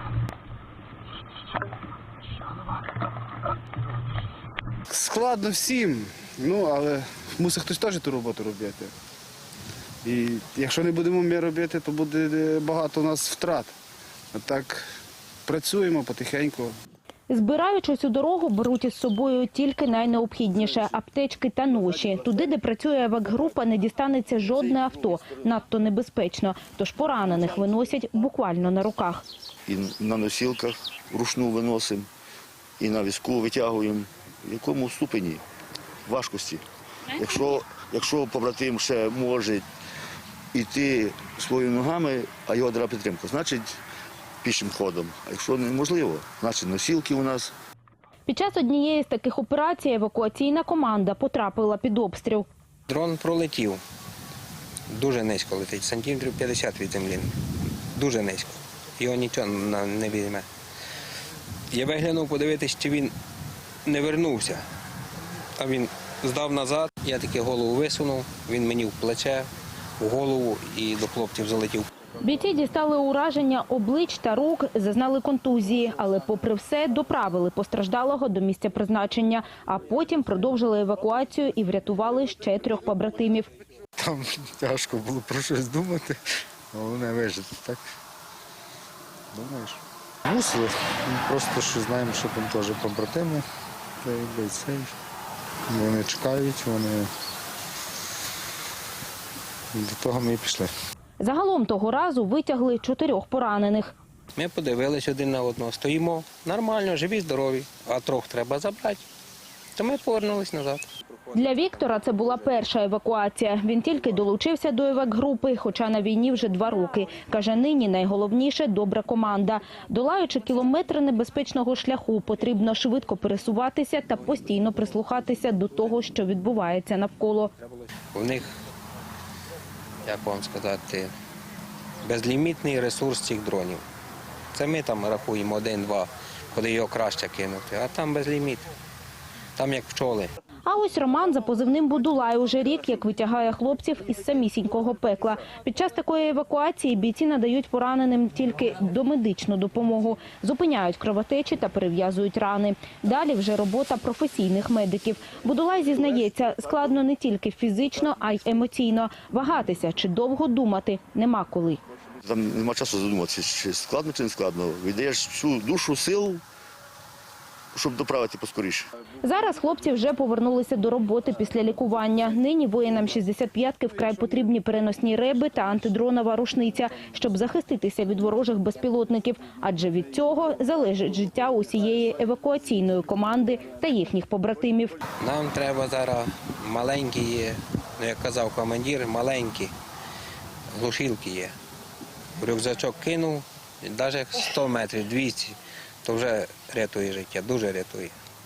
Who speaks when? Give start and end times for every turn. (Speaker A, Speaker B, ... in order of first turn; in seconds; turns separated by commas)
Speaker A: 4.9-8.9, Speaker A: 10.0-13.7, Speaker A: 14.3-14.8, Speaker A: 15.4-16.7, Speaker B: 17.3-29.2, Speaker C: 29.7-32.1, Speaker C: 32.8-35.4, Speaker C: 36.0-39.6, Speaker C: 40.5-43.8, Speaker C: 44.4-47.5, Speaker B: 48.3-52.5, Speaker D: 52.9-53.8, Speaker D: 54.9-57.3, Speaker D: 57.9-60.5, Speaker D: 61.7-63.1, Speaker D: 63.9-64.6, Speaker D: 65.6-69.5, Speaker D: 70.0-71.8, Speaker B: 72.2-83.5, Speaker E: 84.0-86.2, Speaker E: 86.7-87.8, Speaker E: 89.3-93.4, Speaker E: 94.0-94.9, Speaker E: 95.7-97.1, Speaker E: 99.7-100.7, Speaker B: 101.2-103.9, Speaker D: 104.3-109.0, Speaker D: 109.8-110.9, Speaker B: 111.3-127.5, Speaker D: 128.1-128.5, Speaker D: 130.0-131.1, Speaker D: 132.0-133.8, Speaker D: 134.5-138.7, Speaker D: 139.6-140.3, Speaker B: 140.6-161.8, Speaker C: 162.2-166.4, Speaker C: 167.7-168.9, Speaker B: 169.2-185.0, Speaker D: 185.2-189.7, Speaker D: 190.7-191.5, Speaker D: 192.4-198.1